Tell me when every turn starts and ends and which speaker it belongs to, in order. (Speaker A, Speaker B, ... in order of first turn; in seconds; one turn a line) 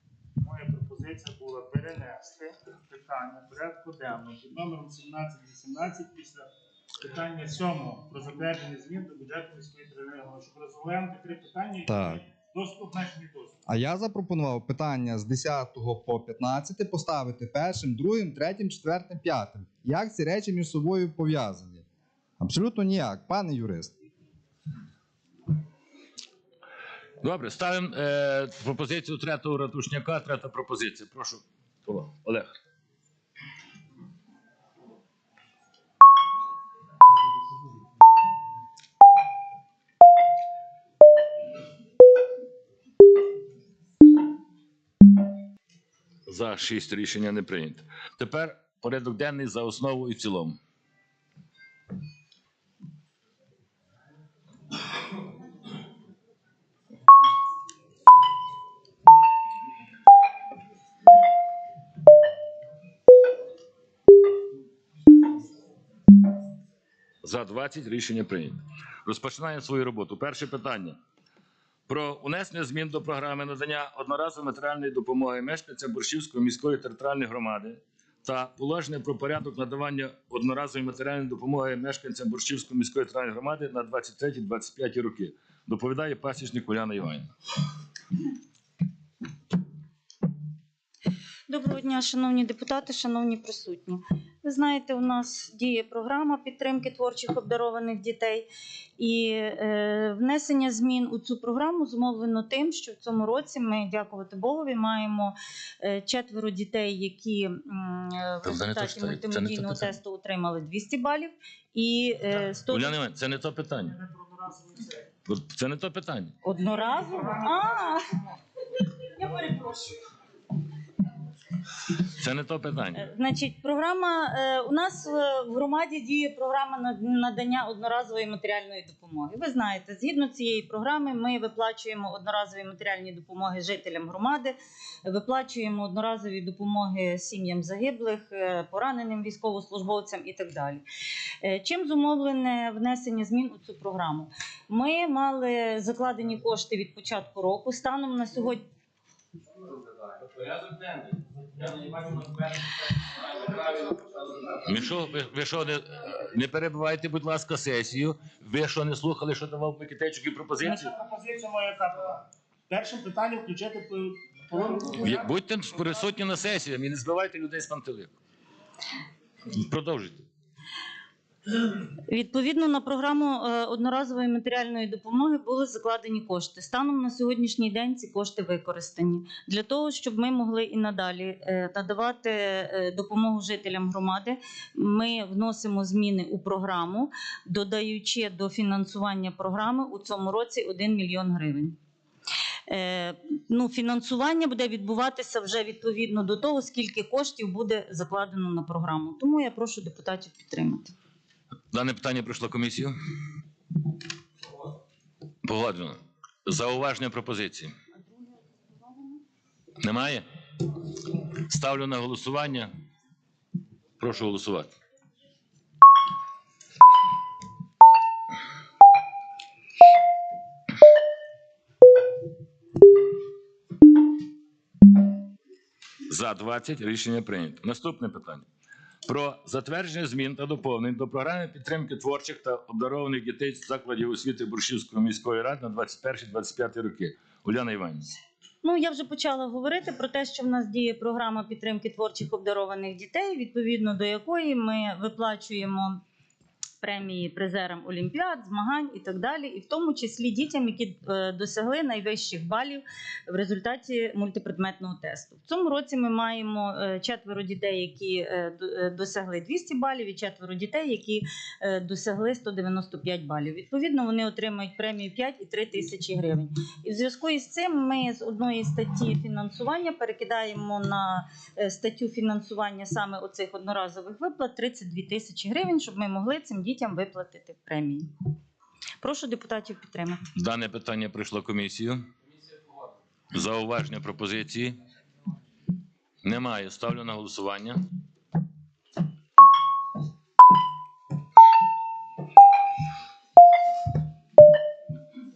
Speaker A: 0.4-6.5
Speaker A: 7.0-13.6
Speaker B: 11.9-12.2
Speaker B: 13.7-21.8
Speaker B: 22.4-23.9
Speaker C: 27.2-32.5
Speaker C: 46.3-50.6
Speaker C: 67.2-71.0
Speaker C: 71.9-87.3
Speaker D: 91.5-98.5
Speaker D: 99.0-113.0
Speaker C: 108.4-110.0
Speaker C: 112.7-114.0
Speaker A: 113.9-115.1
Speaker C: 115.2-116.3
Speaker D: 116.4-118.1
Speaker A: 116.6-118.3
Speaker D: 119.2-119.9
Speaker A: 119.3-119.7
Speaker C: 122.1-123.1
Speaker D: 123.0-140.8
Speaker D: 141.4-148.6
Speaker C: 154.6-160.9
Speaker A: 160.6-165.3
Speaker C: 165.0-168.2
Speaker C: 169.5-170.2
Speaker D: 172.1-191.8
Speaker D: 192.7-200.9
Speaker C: 201.7-202.9
Speaker C: 205.4-207.7
Speaker C: 209.8-210.2
Speaker C: 211.5-212.7
Speaker C: 214.0-214.7
Speaker C: 226.1-228.5
Speaker C: 229.1-238.1
Speaker D: 238.6-246.0
Speaker D: 246.8-278.1
Speaker D: 279.0-280.2
Speaker C: 280.3-282.0
Speaker C: 283.3-284.8
Speaker C: 286.2-287.8